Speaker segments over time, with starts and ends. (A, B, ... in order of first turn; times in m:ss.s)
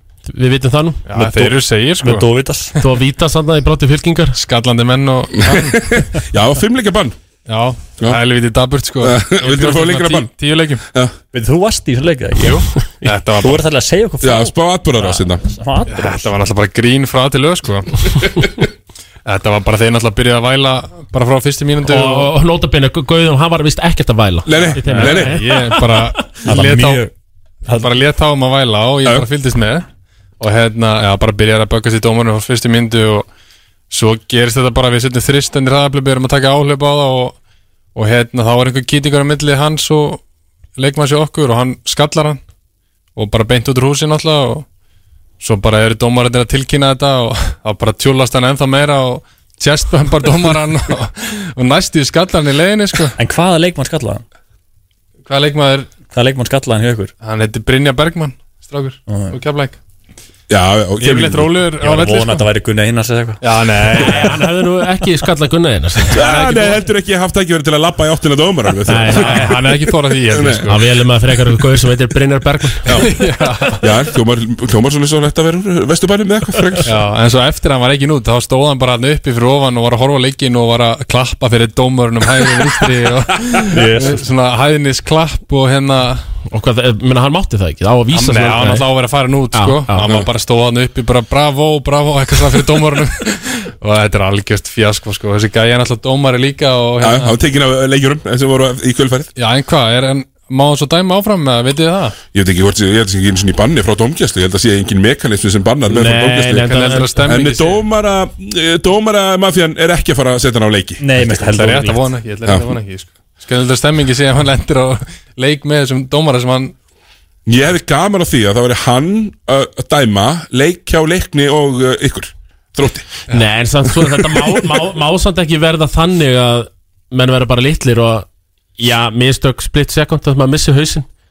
0:00.2-0:01.1 A
0:01.1-0:02.8 B
0:01.2-0:02.7 C
0:02.8-0:04.4 A
0:04.3-0:05.9 B
0:05.4-0:07.2 D
0:07.5-0:10.8 B
0:09.0-0:10.3 D
0:11.3-0:12.6 C
0:12.4-0:13.6 B
0:13.4-0:16.3 C
0:14.2-0:15.4 D
0:15.9-0:18.1 B
0:19.2-0:22.3 B
0:21.8-0:26.2 A
0:24.4-0:25.4 D
0:24.8-0:27.0 B
0:26.4-0:27.1 C
0:27.6-0:27.9 C
0:27.7-0:29.8 B
0:30.4-0:33.3 B
0:33.9-0:37.4 B
0:37.9-0:40.2 B
0:40.8-0:42.4 B
0:43.1-0:44.6 B
0:45.4-0:53.2 B
0:53.2-0:54.2 C
0:55.2-0:55.9 B
0:56.1-0:57.1 C
0:57.2-0:59.8 B
0:59.1-0:59.4 C
1:00.5-1:01.5 D
1:01.0-1:02.5 B
1:01.8-1:03.4 C
1:03.4-1:04.5 B
1:03.9-1:06.2 A
1:06.1-1:10.7 D
1:06.2-1:06.8 B
1:08.9-1:09.5 A
1:09.1-1:10.8 B
1:10.7-1:13.0 A
1:12.8-1:13.1 D
1:12.9-1:13.8 B
1:13.8-1:17.0 D
1:16.8-1:26.2 B
1:23.7-1:24.2 C
1:26.5-1:28.9 A
1:28.1-1:37.3 B
1:29.5-1:30.0 A
1:30.0-1:30.3 D
1:37.0-1:39.3 D
1:39.4-1:42.2 B
1:42.3-1:51.0 D
1:45.9-1:47.3 A
1:46.6-1:47.8 B
1:51.0-1:52.0 C
1:51.1-1:56.7 B
1:57.4-2:03.1 D
2:03.3-2:08.2 A
2:08.8-2:11.1 A